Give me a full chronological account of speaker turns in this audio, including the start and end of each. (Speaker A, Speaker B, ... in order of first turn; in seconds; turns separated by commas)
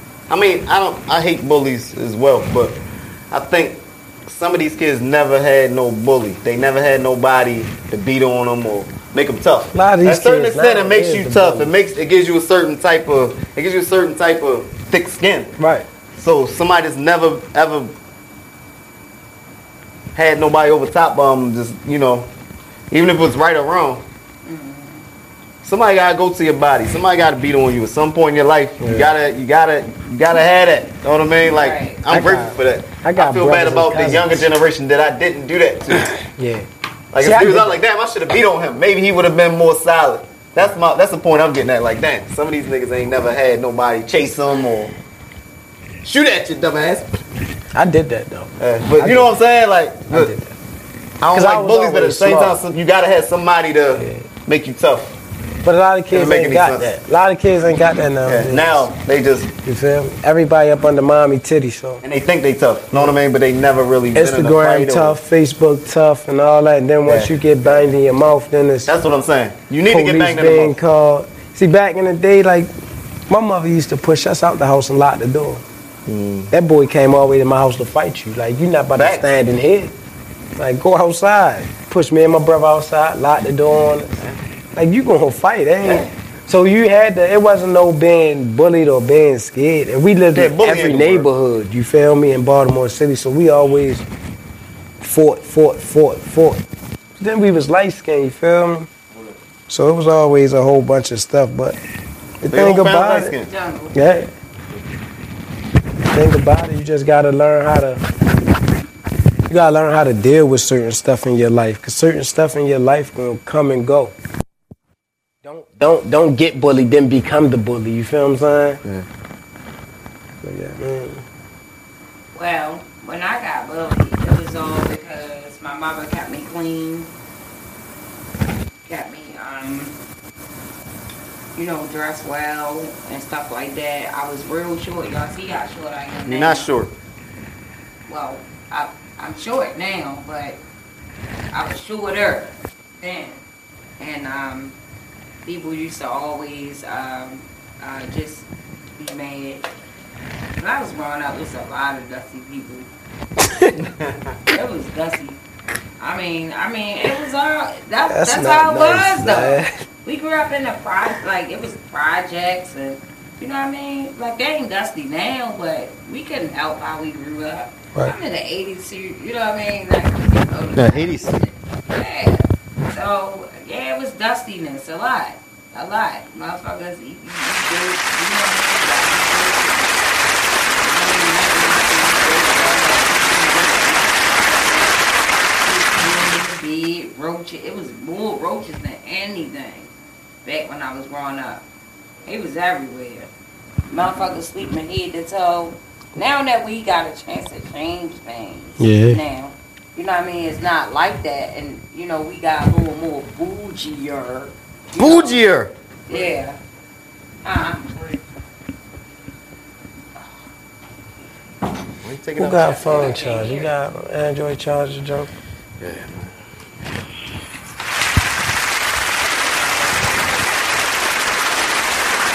Speaker A: 0.3-15.5, Speaker B: 9.7-11.7, Speaker B: 15.6-15.8, Speaker A: 16.1-17.9, Speaker A: 20.1-22.3, Speaker A: 22.9-24.0, Speaker C: 24.4-25.1, Speaker A: 25.6-36.1, Speaker B: 28.8-29.1, Speaker C: 31.5-32.0, Speaker B: 32.1-34.5, Speaker B: 36.4-36.6, Speaker A: 37.1-44.9, Speaker B: 37.2-37.8, Speaker A: 46.0-47.2, Speaker B: 47.7-49.3, Speaker A: 48.6-50.3, Speaker B: 50.1-50.5, Speaker A: 51.2-55.2, Speaker B: 51.3-52.6, Speaker B: 54.0-54.2, Speaker B: 55.6-58.9, Speaker A: 56.1-57.0, Speaker A: 58.2-59.5, Speaker B: 59.6-62.0, Speaker A: 62.0-65.2, Speaker B: 64.1-68.9, Speaker A: 67.0-67.8, Speaker A: 68.9-70.8, Speaker B: 69.8-72.7, Speaker B: 73.3-75.6, Speaker A: 76.0-76.5, Speaker B: 76.5-79.9, Speaker A: 79.0-79.2, Speaker B: 80.6-84.1, Speaker B: 84.7-94.0, Speaker A: 85.8-86.1, Speaker A: 90.3-91.3, Speaker B: 95.0-96.6, Speaker B: 97.2-98.9, Speaker B: 99.7-101.8, Speaker B: 102.4-103.3, Speaker A: 102.5-103.5, Speaker C: 103.5-104.0, Speaker B: 103.9-104.3, Speaker B: 106.1-108.0, Speaker B: 109.5-114.1, Speaker B: 115.4-118.8, Speaker B: 120.4-121.2, Speaker C: 122.3-127.1, Speaker C: 128.8-129.9, Speaker C: 131.5-136.7, Speaker A: 136.2-136.9, Speaker C: 138.1-140.6, Speaker C: 141.5-143.4, Speaker C: 144.0-144.7, Speaker C: 145.4-148.4, Speaker C: 149.0-149.7, Speaker C: 150.6-152.9, Speaker A: 153.8-154.3, Speaker C: 154.5-155.4, Speaker C: 156.0-180.0, Speaker B: 158.1-159.7, Speaker A: 170.8-171.4, Speaker C: 180.7-185.0, Speaker C: 185.6-189.9, Speaker C: 190.4-191.6, Speaker C: 192.2-193.3, Speaker C: 193.9-205.4, Speaker B: 198.8-199.2, Speaker A: 205.0-206.3, Speaker C: 206.1-206.6, Speaker C: 207.4-207.9, Speaker A: 212.0-212.9, Speaker B: 212.3-215.3, Speaker C: 212.6-213.7, Speaker A: 215.8-216.3